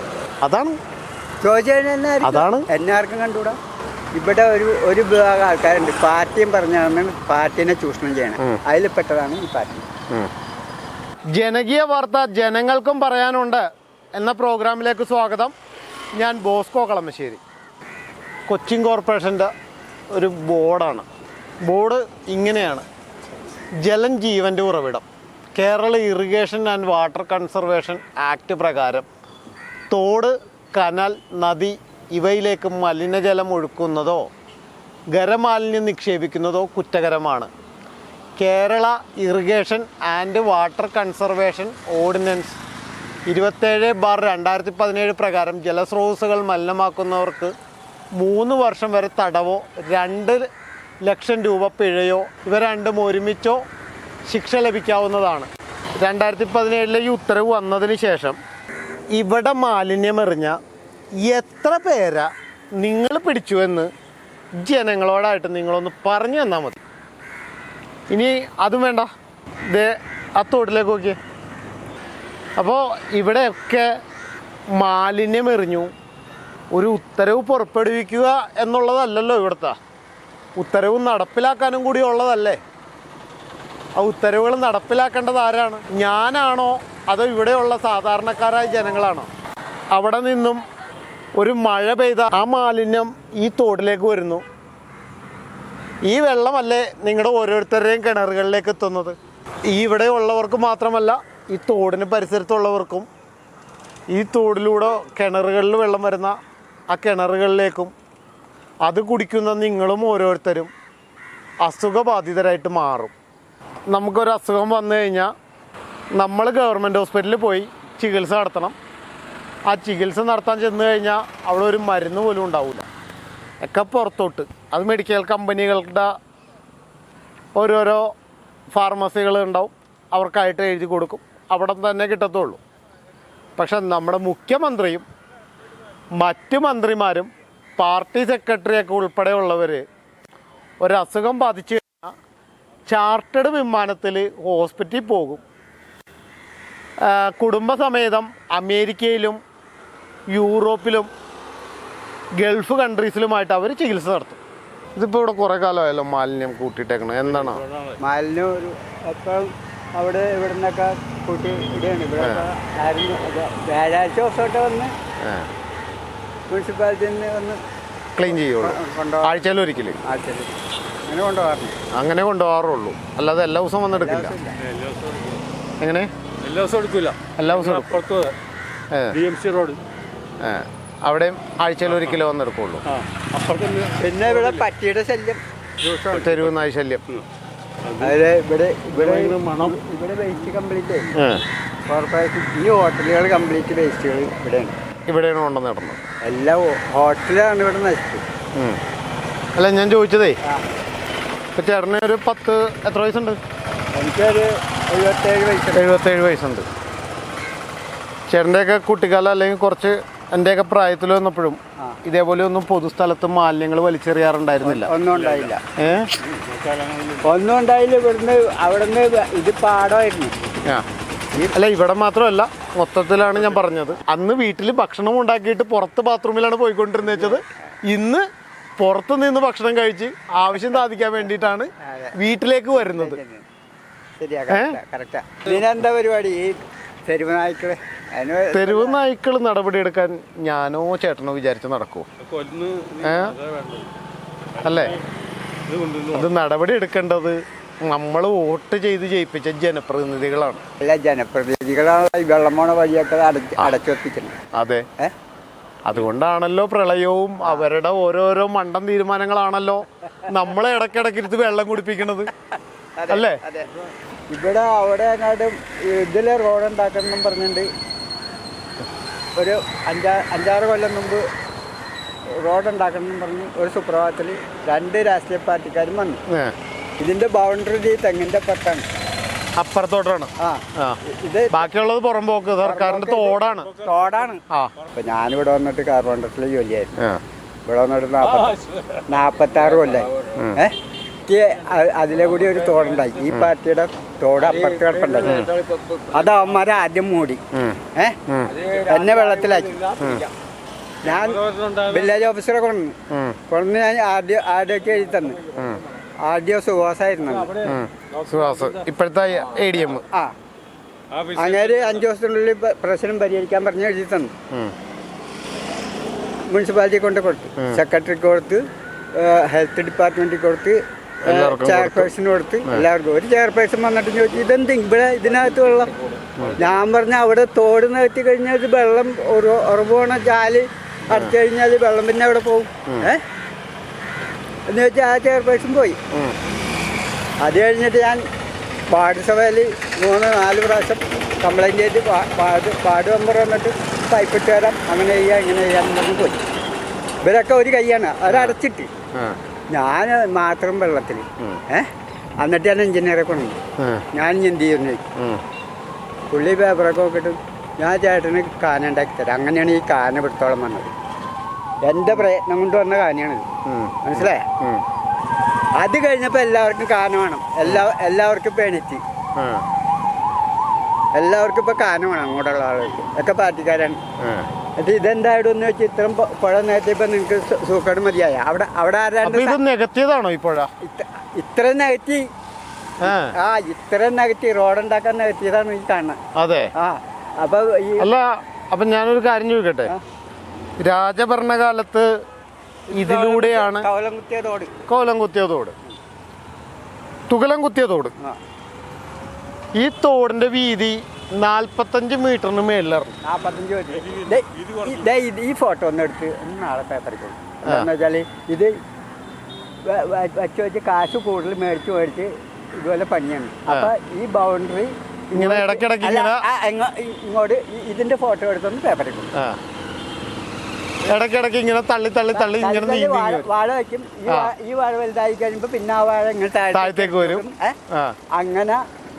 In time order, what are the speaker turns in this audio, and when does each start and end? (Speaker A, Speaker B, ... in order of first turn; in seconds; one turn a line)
Speaker A: 0.4-0.7
Speaker B: 1.4-3.6
Speaker A: 2.2-2.6
Speaker B: 4.2-9.9
Speaker A: 11.3-15.5
Speaker A: 16.2-17.4
Speaker A: 18.5-19.5
Speaker A: 20.1-21.1
Speaker A: 21.6-22.9
Speaker A: 23.8-29.1
Speaker A: 29.9-34.3
Speaker A: 35.1-37.5
Speaker A: 38.4-42.6
Speaker A: 43.3-47.5
Speaker A: 48.2-50.5
Speaker A: 51.0-53.6
Speaker A: 54.3-58.4
Speaker A: 59.1-60.6
Speaker A: 61.2-63.9
Speaker A: 64.6-66.8
Speaker A: 68.1-69.1
Speaker A: 69.7-71.2
Speaker A: 72.6-73.9
Speaker A: 74.7-75.9
Speaker A: 76.7-79.8
Speaker A: 80.6-82.6
Speaker A: 84.0-89.3
Speaker A: 89.9-90.6
Speaker A: 91.4-94.4
Speaker A: 96.0-99.2
Speaker A: 99.7-103.1
Speaker A: 104.1-106.4
Speaker A: 106.9-107.9
Speaker A: 108.8-110.7
Speaker A: 111.6-113.1
Speaker A: 113.9-115.3
Speaker A: 116.2-118.8
Speaker A: 119.7-122.9
Speaker A: 123.6-126.1
Speaker A: 127.5-128.1
Speaker A: 128.7-132.6
Speaker A: 133.6-135.1
Speaker A: 136.2-139.8
Speaker A: 140.8-142.1
Speaker A: 142.9-145.4
Speaker A: 147.0-149.4
Speaker A: 150.3-151.1
Speaker A: 152.4-154.4
Speaker A: 155.0-157.6
Speaker C: 157.3-158.0
Speaker B: 158.0-164.9
Speaker A: 162.2-162.5
Speaker A: 165.2-165.5
Speaker B: 166.5-167.6
Speaker A: 168.2-170.0
Speaker B: 168.3-169.4
Speaker B: 170.0-171.8
Speaker A: 171.9-174.3
Speaker B: 173.9-174.6
Speaker C: 174.6-175.4
Speaker A: 175.8-176.1
Speaker C: 176.4-178.3
Speaker A: 177.4-178.0
Speaker A: 178.9-179.2
Speaker C: 179.1-179.8
Speaker A: 180.4-182.8
Speaker C: 181.9-182.2
Speaker C: 182.9-184.7
Speaker B: 184.0-186.5
Speaker A: 186.1-187.0
Speaker C: 186.3-186.5
Speaker C: 187.8-188.2
Speaker B: 188.0-191.2
Speaker C: 188.9-189.8
Speaker A: 191.2-191.4
Speaker B: 191.8-194.8
Speaker A: 195.1-196.0
Speaker B: 196.2-198.2
Speaker A: 199.6-200.4
Speaker A: 201.6-203.4
Speaker B: 203.9-205.9
Speaker A: 205.8-206.7
Speaker A: 208.3-214.9
Speaker B: 214.7-215.6
Speaker C: 215.1-215.5
Speaker A: 215.8-216.1
Speaker B: 216.2-216.4
Speaker C: 216.4-217.3
Speaker B: 217.2-220.3
Speaker A: 221.5-228.3
Speaker C: 223.3-223.6
Speaker A: 228.8-233.2
Speaker B: 231.8-232.2
Speaker B: 232.7-233.5
Speaker B: 234.2-239.0
Speaker A: 234.5-234.8
Speaker A: 238.5-242.1
Speaker C: 242.2-243.9
Speaker A: 243.0-243.4
Speaker C: 244.5-245.0
Speaker A: 244.6-245.0
Speaker C: 245.7-246.3
Speaker A: 246.1-250.6
Speaker B: 250.8-254.4
Speaker A: 254.6-254.8
Speaker A: 255.8-262.3
Speaker B: 257.4-257.7
Speaker B: 263.0-263.7
Speaker A: 263.1-263.4
Speaker B: 264.3-267.7
Speaker B: 269.4-271.3
Speaker B: 272.4-276.2
Speaker A: 276.3-276.6
Speaker B: 277.0-278.9
Speaker A: 279.6-281.0
Speaker B: 280.4-281.7
Speaker A: 281.5-283.7
Speaker B: 282.6-284.4
Speaker C: 283.5-284.3
Speaker B: 284.9-287.0
Speaker B: 287.7-295.4
Speaker C: 288.3-289.1
Speaker C: 292.4-293.1
Speaker C: 294.6-296.0
Speaker A: 295.2-295.6
Speaker B: 296.1-297.4
Speaker A: 297.5-298.6
Speaker B: 297.9-299.9
Speaker C: 298.5-300.3
Speaker A: 300.0-300.3
Speaker B: 301.0-303.0
Speaker C: 301.0-302.3
Speaker A: 303.1-303.4
Speaker B: 303.5-305.4
Speaker A: 305.6-305.8
Speaker B: 306.2-307.6
Speaker C: 307.3-308.9
Speaker A: 307.6-310.0
Speaker C: 311.1-312.1
Speaker B: 311.4-314.3
Speaker B: 316.5-318.6
Speaker B: 319.1-326.0
Speaker A: 321.2-322.1
Speaker B: 326.6-333.2
Speaker B: 334.7-336.0
Speaker B: 337.4-338.2
Speaker B: 338.9-346.4
Speaker B: 347.2-348.9
Speaker A: 348.3-348.6
Speaker B: 349.7-351.9
Speaker B: 352.4-353.6
Speaker A: 353.8-354.1
Speaker B: 354.1-355.1
Speaker A: 355.2-355.4
Speaker B: 356.3-360.9
Speaker B: 361.9-363.5
Speaker A: 363.7-364.8
Speaker B: 364.0-364.5
Speaker B: 365.8-369.0
Speaker A: 369.4-369.6
Speaker B: 371.1-374.0
Speaker A: 374.2-374.5
Speaker B: 374.8-379.6
Speaker A: 379.2-380.7
Speaker B: 380.8-382.3
Speaker A: 383.0-383.3
Speaker B: 383.0-386.2
Speaker A: 386.4-386.7
Speaker B: 386.8-388.1
Speaker A: 388.0-389.9
Speaker A: 390.8-392.1
Speaker B: 392.9-394.8
Speaker A: 392.9-393.9
Speaker A: 394.9-395.8
Speaker A: 397.3-398.1
Speaker A: 399.8-403.1
Speaker B: 403.2-408.8
Speaker C: 404.0-405.1
Speaker B: 409.9-419.3
Speaker A: 415.3-416.4
Speaker A: 421.1-423.5
Speaker B: 422.3-427.8
Speaker A: 424.3-424.5
Speaker A: 426.7-428.2
Speaker B: 428.3-428.8